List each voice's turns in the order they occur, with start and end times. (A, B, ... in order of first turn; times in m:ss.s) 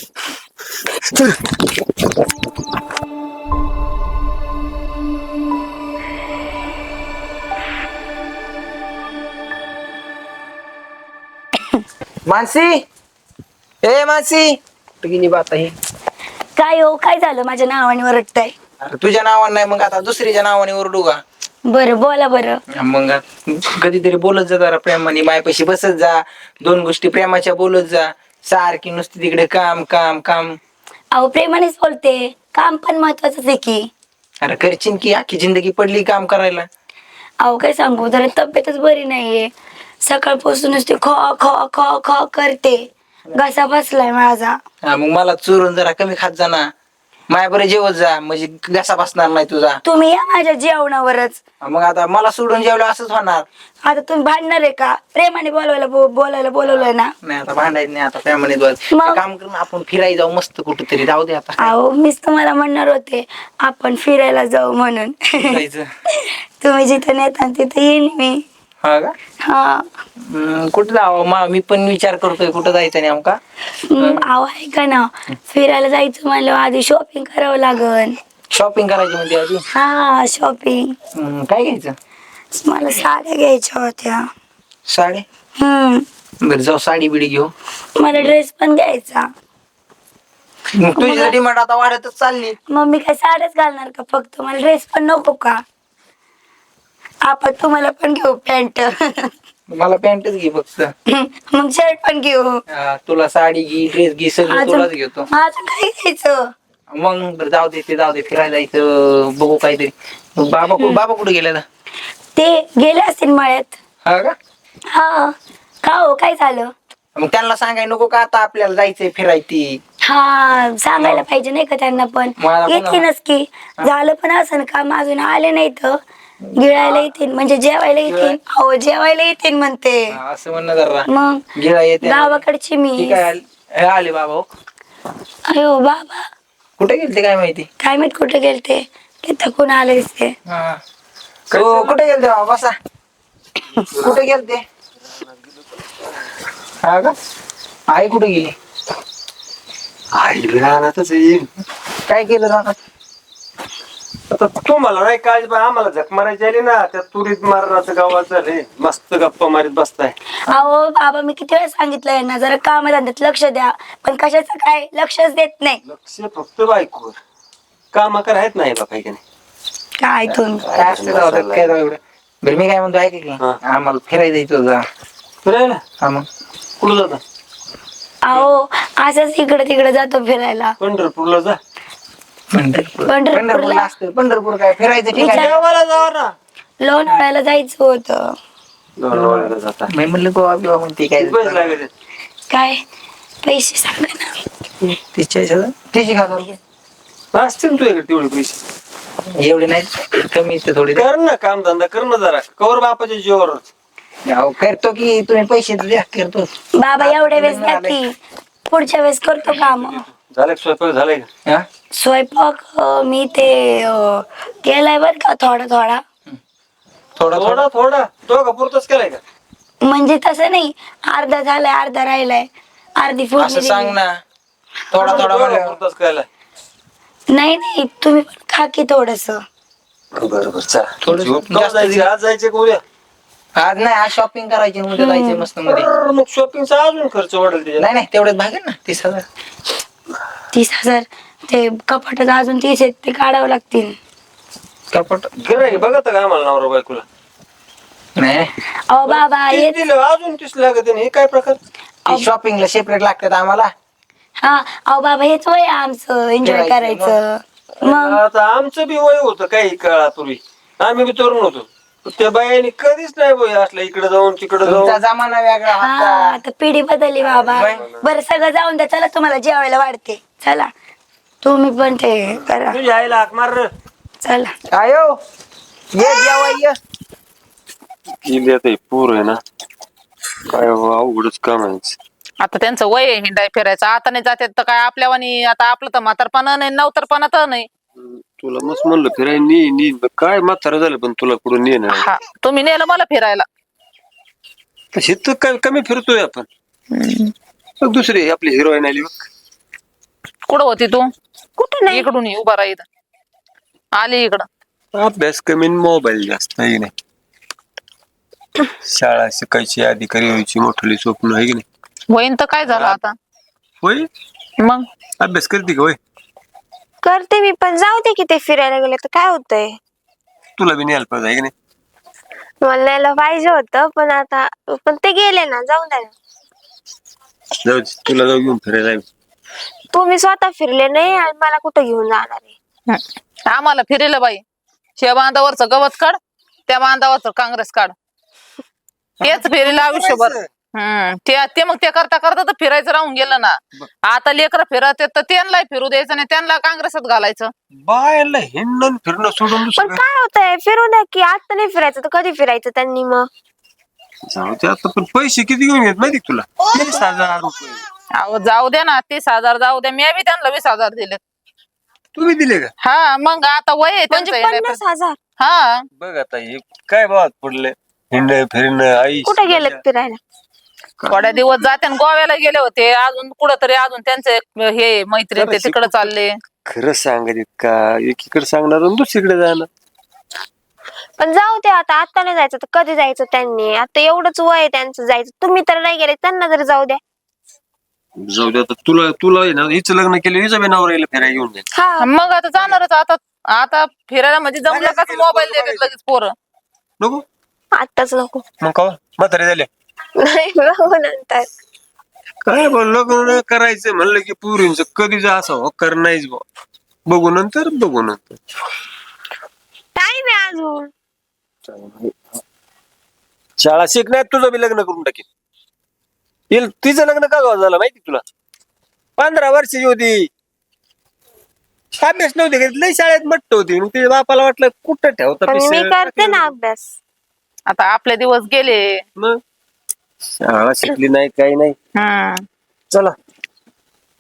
0:12.2-0:12.8 A
0:13.8-0:15.7 A
0:16.6-0:18.5 B
0:18.8-0:21.2 A
0:21.7-0:22.6 B
0:22.8-0:30.6 A
0:31.1-0:33.9 B
0:34.4-0:36.7 A
0:37.4-0:39.5 B
0:40.0-0:42.8 B
0:43.4-0:44.6 B
0:44.9-0:46.7 A
0:47.3-0:49.8 A
0:49.8-0:51.4 B
0:51.6-0:53.5 A
0:53.8-0:57.1 B
0:56.7-1:01.7 A
0:59.0-0:59.2 B
1:01.6-1:05.6 B
1:05.4-1:05.9 A
1:06.2-1:08.4 B
1:08.8-1:09.1 A
1:09.4-1:09.9 B
1:10.3-1:13.4 A
1:13.9-1:18.2 B
1:14.0-1:14.3 A
1:18.5-1:19.6 A
1:19.7-1:21.0 B
1:21.2-1:22.0 A
1:22.6-1:24.2 B
1:24.9-1:25.2 A
1:25.6-1:26.1 B
1:26.4-1:27.5 A
1:28.0-1:29.2 B
1:30.8-1:32.6 A
1:31.0-1:31.3 B
1:32.7-1:35.6 B
1:37.3-1:39.3 B
1:39.7-1:40.9 A
1:41.1-1:42.6 B
1:42.7-1:45.3 A
1:44.5-1:46.5 B
1:46.9-1:51.6 A
1:52.4-1:53.8 B
1:54.0-1:54.3 A
1:54.9-1:56.7 B
1:57.2-1:59.8 A
2:00.0-2:06.0 B
2:01.0-2:01.2 A
2:02.4-2:03.1 A
2:06.6-2:10.1 B
2:06.7-2:07.0 A
2:07.9-2:08.4 A
2:10.1-2:11.1 A
2:11.1-2:13.2 B
2:11.6-2:12.4 A
2:13.0-2:14.5 A
2:15.5-2:16.2 B
2:16.8-2:17.7 A
2:17.8-2:20.4 B
2:20.5-2:20.8 A
2:21.5-2:22.7 A
2:21.5-2:22.1 C
2:23.7-2:24.3 C
2:24.0-2:24.6 A
2:25.0-2:26.1 C
2:26.8-2:27.1 A
2:27.9-2:28.5 A
2:30.1-2:31.5 C
2:32.1-2:32.8 A
2:34.3-2:40.1 C
2:40.5-2:45.8 B
2:45.8-2:47.2 C
2:47.9-2:49.2 C
2:50.0-2:50.6 B
2:50.6-2:51.7 C
2:50.7-2:54.8 A
2:55.4-2:55.8 C
2:56.0-2:56.2 A
2:56.8-2:57.2 C
2:58.2-3:00.8 B
3:00.8-3:01.6 C
3:02.5-3:05.5 A
3:03.1-3:03.9 B
3:05.1-3:06.3 C
3:05.2-3:05.5 B
3:06.8-3:08.2 B
3:09.0-3:09.9 C
3:09.1-3:11.8 A
3:11.2-3:11.9 C
3:12.5-3:12.8 B
3:13.4-3:14.4 B
3:14.8-3:16.6 A
3:17.3-3:18.6 C
3:19.4-3:21.0 A
3:20.9-3:23.6 C
3:24.3-3:26.5 A
3:26.8-3:28.1 B
3:27.0-3:28.0 A
3:28.7-3:30.0 B
3:29.8-3:31.3 C
3:32.0-3:36.0 B
3:37.2-3:37.7 A
3:37.3-3:39.2 C
3:39.8-3:44.0 B
3:43.4-3:44.1 A
3:44.9-3:45.8 A
3:45.0-3:46.3 C
3:47.3-3:49.4 B
3:50.2-3:52.8 C
3:51.0-3:52.1 A
3:53.6-3:55.9 A
3:55.0-3:55.5 B
3:55.7-3:58.0 C
3:57.8-3:59.2 A
4:00.5-4:04.0 B
4:04.9-4:05.8 A
4:05.4-4:07.0 C
4:08.2-4:08.5 A
4:08.9-4:09.8 B
4:09.0-4:11.6 C
4:12.1-4:13.7 A
4:14.4-4:18.2 B
4:16.4-4:17.1 A
4:17.8-4:25.0 C
4:24.6-4:26.4 A
4:25.8-4:30.7 B
4:27.2-4:28.0 C
4:27.5-4:27.8 A
4:31.4-4:32.8 B
4:32.7-4:33.7 C
4:34.2-4:34.6 B
4:34.7-4:35.2 A
4:35.9-4:36.8 A
4:38.2-4:39.4 C
4:40.5-4:42.0 C
4:42.4-4:47.7 D
4:48.0-4:52.1 C
4:51.9-4:53.4 D
4:54.9-4:56.5 C
4:56.9-4:57.3 D
4:57.8-4:59.2 C
5:00.5-5:01.1 D
5:01.6-5:02.1 E
5:01.9-5:02.8 D
5:04.0-5:04.4 D
5:04.9-5:06.9 C
5:08.8-5:11.6 C
5:12.1-5:13.1 D
5:12.6-5:13.0 C
5:13.8-5:14.1 C
5:15.2-5:16.0 C
5:17.0-5:19.8 E
5:20.6-5:21.5 C
5:22.6-5:26.1 E
5:27.6-5:29.1 C
5:29.9-5:32.6 E
5:32.9-5:34.4 D
5:35.0-5:36.2 D
5:36.7-5:37.9 D
5:39.2-5:40.4 C
5:39.2-5:43.6 D
5:44.1-5:47.5 D
5:47.8-5:50.0 C
5:49.6-5:53.3 E
5:54.3-5:57.8 C
5:58.2-6:01.2 D
6:02.1-6:02.7 C
6:02.8-6:04.8 D
6:04.1-6:05.2 E
6:05.4-6:05.8 D
6:06.0-6:09.8 C
6:09.3-6:10.2 E
6:11.1-6:16.3 D
6:15.4-6:16.1 C
6:16.6-6:19.7 C
6:21.2-6:27.0 E
6:28.2-6:31.6 C
6:31.8-6:32.1 E
6:32.0-6:36.3 D
6:34.7-6:35.9 C
6:37.8-6:38.4 E
6:38.6-6:39.7 C
6:40.2-6:41.5 E
6:42.4-6:46.4 C
6:47.1-6:48.3 C
6:50.0-6:50.9 E
6:51.7-6:52.1 C
6:53.6-6:55.2 C
6:56.5-6:58.2 C
6:59.2-7:00.2 C
7:02.0-7:06.6 C
7:05.5-7:06.9 E
7:07.7-7:09.0 D
7:10.4-7:11.8 C
7:12.0-7:12.4 D